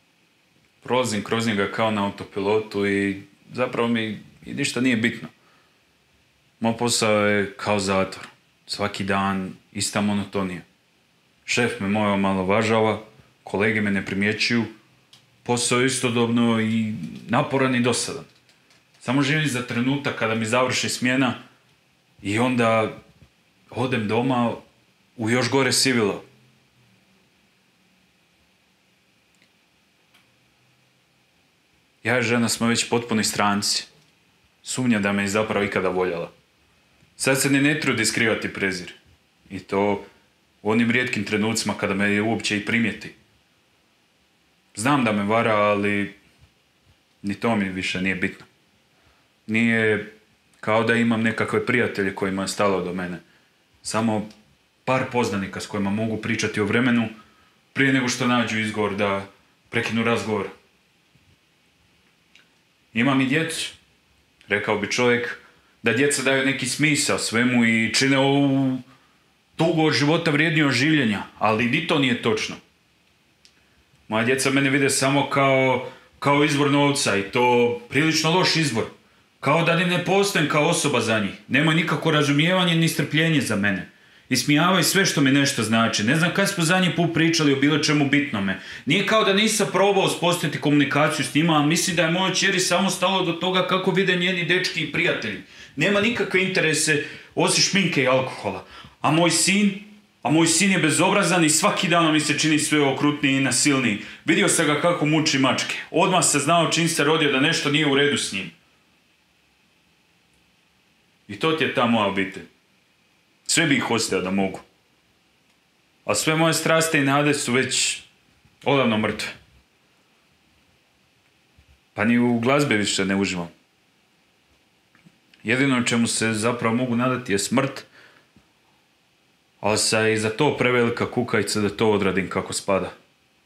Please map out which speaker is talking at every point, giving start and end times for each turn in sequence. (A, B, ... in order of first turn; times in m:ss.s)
0:00.8-0:05.3 A
0:06.6-0:10.6 A
0:11.4-0:14.7 A
0:15.4-0:18.3 A
0:19.0-0:21.4 A
0:22.2-0:23.0 A
0:23.7-0:24.6 A
0:25.2-0:26.2 A
0:32.0-0:33.9 A
0:34.6-0:36.3 A
0:37.2-0:39.0 A
0:39.5-0:40.1 A
0:40.6-0:43.1 A
0:44.7-0:46.2 A
0:47.2-0:48.5 A
0:49.5-0:53.2 A
0:53.8-0:54.3 A
0:54.8-0:57.1 A
0:57.7-1:00.5 A
1:02.9-1:03.8 A
1:04.5-1:08.8 A
1:09.6-1:12.6 A
1:14.1-1:48.5 A
1:51.3-1:52.5 A
1:53.4-1:54.6 A
1:56.0-1:58.1 A
1:58.6-1:59.3 A
2:01.9-2:03.5 A
2:05.4-2:07.9 A
2:09.6-2:12.9 A